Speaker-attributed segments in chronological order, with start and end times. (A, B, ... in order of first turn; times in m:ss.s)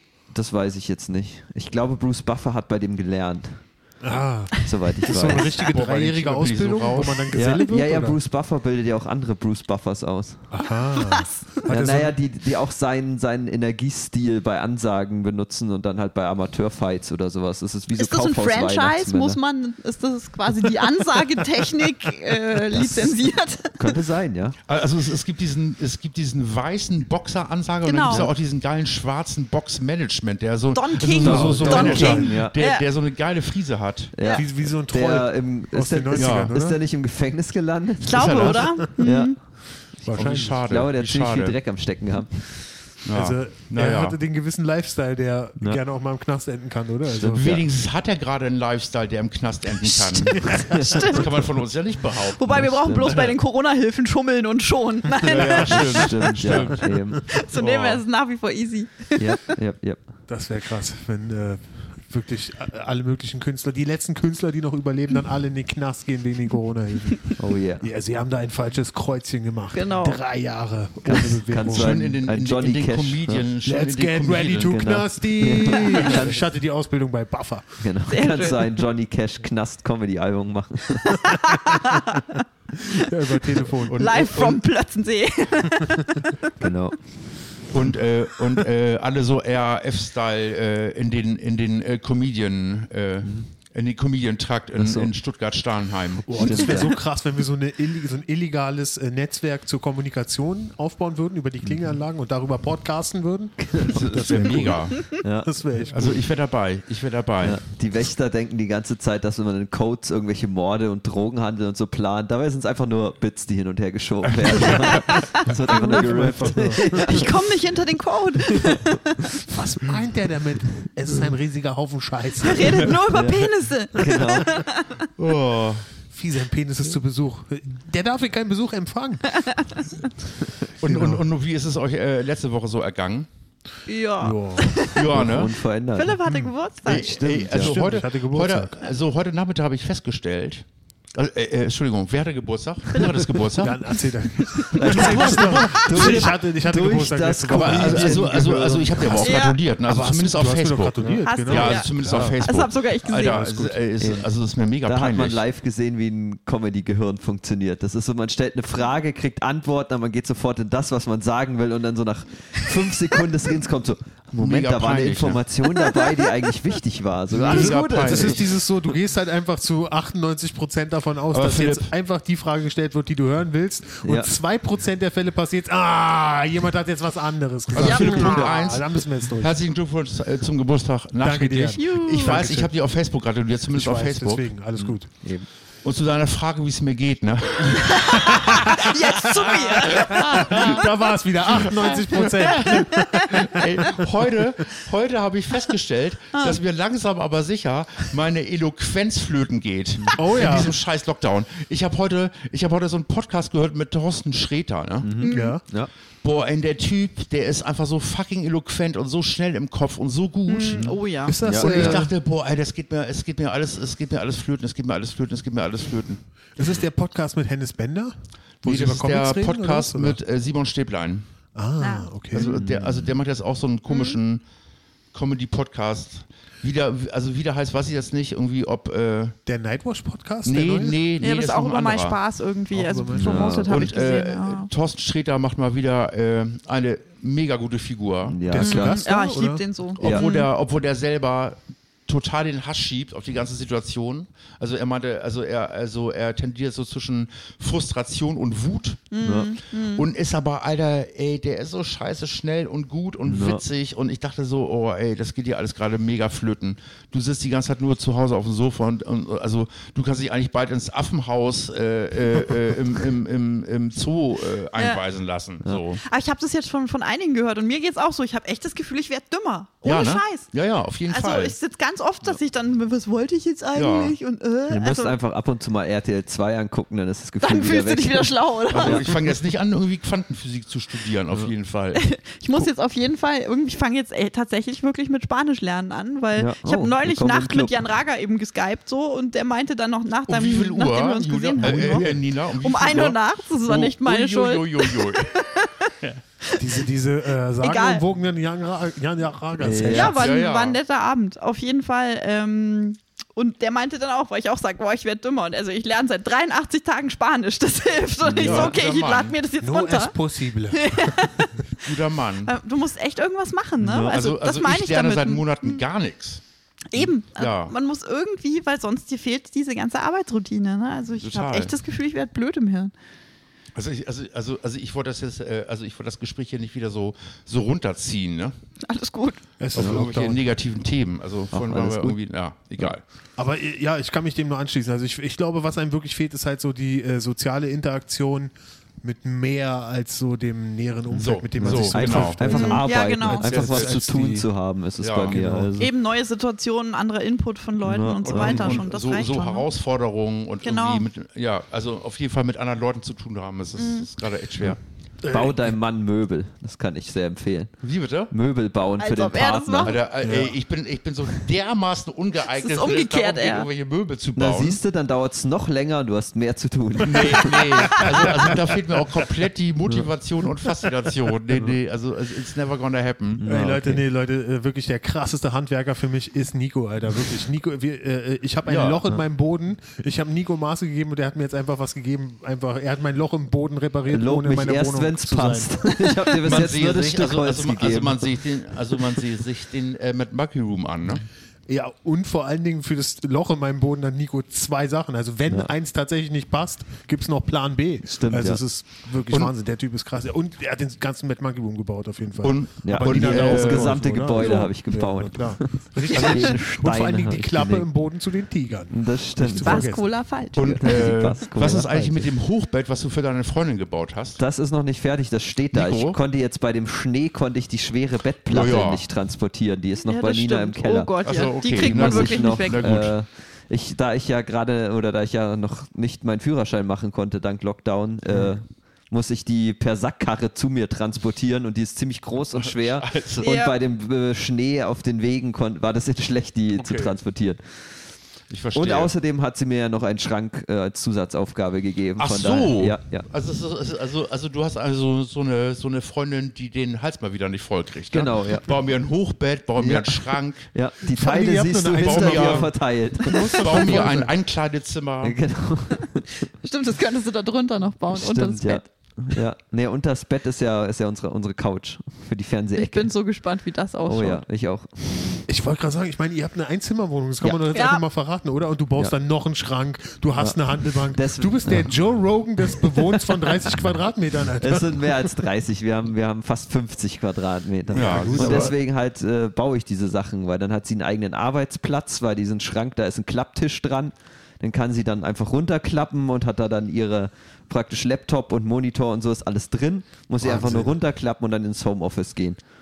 0:00.3-0:03.6 A
0:04.0-0:08.2 B
0:04.6-0:05.6 A
0:05.2-0:07.3 C
0:07.3-0:10.5 A
0:10.5-0:12.2 B
0:11.0-0:11.4 D
0:11.7-0:19.4 A
0:17.9-0:23.9 D
0:22.7-0:23.2 A
0:23.8-0:24.6 A
0:24.7-0:34.2 C
0:27.8-0:28.3 D
0:30.7-0:32.9 D
0:31.2-0:32.6 A
0:31.2-0:32.2 B
0:34.2-0:39.4 A
0:34.3-0:36.8 B
0:36.2-0:36.5 C
0:38.0-0:39.4 D
0:38.2-0:38.7 C
0:38.7-0:38.9 B
0:40.0-0:40.6 B
0:40.1-0:41.6 C
0:40.7-0:42.5 A
0:43.1-0:44.2 C
0:43.1-0:47.6 B
0:47.1-0:47.6 A
0:47.4-0:53.4 C
0:49.9-0:51.0 B
0:50.6-0:51.0 A
0:50.8-0:51.3 D
0:52.1-0:56.6 D
0:52.5-0:53.2 A
0:55.2-0:56.0 B
0:55.2-0:56.9 C
0:55.6-0:57.3 A
0:56.9-0:57.2 B
0:57.3-0:59.4 D
0:57.5-0:58.0 C
0:59.2-1:00.0 A
1:00.3-1:12.0 B
1:07.4-1:07.9 A
1:09.7-1:10.2 D
1:11.0-1:13.5 A
1:11.7-1:14.8 C
1:13.6-1:17.8 B
1:14.6-1:16.5 A
1:17.8-1:21.2 A
1:18.1-1:18.7 D
1:21.0-1:22.4 D
1:21.8-1:22.0 B
1:22.8-1:24.3 B
1:23.8-1:24.6 C
1:24.0-1:26.7 D
1:26.6-1:27.0 A
1:27.7-1:36.8 C
1:33.2-1:33.5 A
1:34.7-1:35.1 A
1:36.3-1:46.2 B
1:36.3-1:37.0 A
1:41.6-1:42.0 A
1:43.6-1:46.1 A
1:43.9-1:45.1 C
1:45.9-1:47.6 C
1:47.4-1:57.4 A
1:54.2-1:55.2 C
1:54.6-1:57.2 B
1:55.4-1:56.1 D
1:56.8-1:59.3 D
1:58.5-1:58.8 A
1:59.5-2:03.0 B
2:02.4-2:05.1 D
2:03.1-2:04.6 A
2:05.2-2:05.9 C
2:06.1-2:09.8 B
2:10.8-2:13.3 C
2:10.8-2:11.3 B
2:13.9-2:15.1 D
2:14.2-2:14.8 B
2:14.9-2:15.6 C
2:15.1-2:16.2 A
2:16.0-2:17.3 D
2:16.2-2:16.5 B
2:16.9-2:17.8 A
2:16.9-2:23.8 C
2:17.5-2:18.9 B
2:22.9-2:23.7 D
2:23.6-2:32.4 B
2:24.4-2:24.8 D
2:24.7-2:28.8 A
2:24.8-2:26.4 C
2:27.5-2:35.4 C
2:29.2-2:29.6 D
2:31.2-2:33.4 D
2:33.2-2:33.8 B
2:34.0-2:34.3 A
2:34.8-2:48.5 A
2:44.4-2:45.4 C
2:45.7-2:46.2 D
2:47.3-2:48.5 C
2:47.5-2:59.5 B
2:51.3-2:51.9 C
2:54.0-2:54.3 A
2:57.7-3:04.5 C
2:57.8-2:58.6 D
3:01.2-3:02.7 B
3:01.8-3:02.5 D
3:03.8-3:05.1 B
3:04.8-3:05.5 A
3:05.8-3:10.8 C
3:07.8-3:10.9 D
3:08.1-3:14.0 B
3:11.4-3:25.2 C
3:11.6-3:14.0 D
3:16.3-3:16.6 D
3:20.1-3:20.7 B
3:25.0-3:25.9 A
3:25.2-3:25.5 D
3:25.3-3:25.6 B
3:26.2-3:30.9 C
3:30.5-3:31.4 D
3:30.7-3:32.0 A
3:31.2-3:32.1 B
3:31.6-3:36.2 C
3:36.6-3:40.2 B
3:38.6-3:41.3 C
3:41.6-3:42.5 B
3:41.8-3:42.1 D
3:42.3-3:44.4 C
3:42.4-3:43.1 A
3:43.9-3:44.2 D
3:45.1-3:49.4 C
3:49.5-3:51.0 B
3:50.4-3:52.2 C
3:51.2-3:54.7 D
3:52.7-3:53.6 B
3:53.2-3:53.9 A
3:53.6-3:58.4 C
3:58.3-3:59.0 A
3:58.5-3:59.6 B
3:58.6-4:00.5 D
4:00.0-4:09.1 C
4:00.0-4:00.3 A
4:09.1-4:10.1 D
4:09.2-4:09.5 A
4:09.9-4:26.0 C
4:13.2-4:13.6 A
4:24.8-4:25.0 D
4:26.0-4:30.5 D
4:29.8-4:31.6 C
4:31.1-4:35.2 D
4:33.8-4:34.2 C
4:34.7-4:39.1 A
4:37.4-4:39.1 D
4:38.7-4:42.0 C
4:42.0-4:55.9 D
4:46.4-4:47.9 A
4:50.3-4:56.2 C
4:51.6-4:52.2 B
4:56.5-4:56.7 D
4:56.5-5:00.3 B
4:57.6-4:58.0 D
4:59.6-5:00.3 A
4:59.9-5:10.2 D
5:00.0-5:00.8 C
5:08.2-5:08.7 A
5:08.4-5:09.4 C
5:09.6-5:11.3 B
5:10.7-5:11.8 D
5:11.8-5:12.6 C
5:12.5-5:15.8 D
5:13.8-5:14.2 A
5:14.0-5:16.4 C
5:16.9-5:22.9 D
5:17.4-5:17.8 C
5:21.2-5:21.7 C
5:23.8-5:28.5 C
5:28.8-5:29.4 D
5:29.6-5:30.4 B
5:29.8-5:33.0 C
5:29.8-5:30.0 A
5:31.5-5:32.2 A
5:33.4-5:44.5 B
5:41.1-5:45.9 A
5:41.2-5:42.5 C
5:42.5-5:43.5 D
5:43.5-5:44.0 C
5:45.0-5:45.4 C
5:45.3-5:45.7 B
5:45.8-5:49.7 D
5:47.8-5:48.8 A
5:48.2-5:54.8 C
5:50.6-5:51.1 D
5:53.8-5:54.1 D
5:55.2-5:55.8 B
5:55.3-5:57.7 A
5:57.8-5:58.3 C
5:58.3-6:00.0 A
5:59.0-6:00.0 D
5:59.8-6:04.8 C
6:00.2-6:00.5 B
6:02.5-6:03.7 D
6:04.4-6:07.7 A
6:07.0-6:13.5 C
6:07.9-6:08.5 B
6:11.5-6:11.8 B
6:13.4-6:14.0 A
6:13.4-6:26.3 B
6:18.7-6:19.0 C
6:24.1-6:28.4 A
6:26.4-6:31.2 C
6:28.9-6:29.2 A
6:31.7-6:50.1 B
6:38.1-6:38.6 A
6:42.4-6:44.0 C
6:42.8-6:47.9 A
6:46.1-6:46.5 C
6:48.9-6:50.0 A
6:49.5-6:51.1 D
6:50.6-6:54.4 C
6:50.6-6:52.3 A
6:54.4-7:01.1 A
6:55.7-6:56.2 C
6:58.5-6:59.0 C
7:00.1-7:03.1 D
7:01.2-7:03.1 C
7:01.7-7:17.6 A
7:12.6-7:13.5 C
7:13.4-7:13.8 D
7:16.8-7:17.2 C
7:18.5-7:19.1 C
7:18.8-7:23.3 A
7:22.2-7:30.7 C
7:28.1-7:28.8 A
7:29.8-7:34.1 A
7:31.0-7:34.3 B
7:32.0-7:32.7 C
7:33.4-7:34.0 D
7:33.5-7:35.4 C
7:35.2-7:36.3 A
7:36.6-7:38.9 D
7:38.1-7:43.1 A
7:42.7-7:44.4 D
7:44.1-7:45.4 A
7:45.5-7:55.4 B
7:47.4-7:47.8 A
7:47.7-7:48.0 D
7:50.4-7:51.9 A
7:52.9-7:53.4 A
7:54.6-8:12.6 A
7:57.9-7:58.8 C
7:57.9-7:58.8 B
8:10.4-8:11.0 B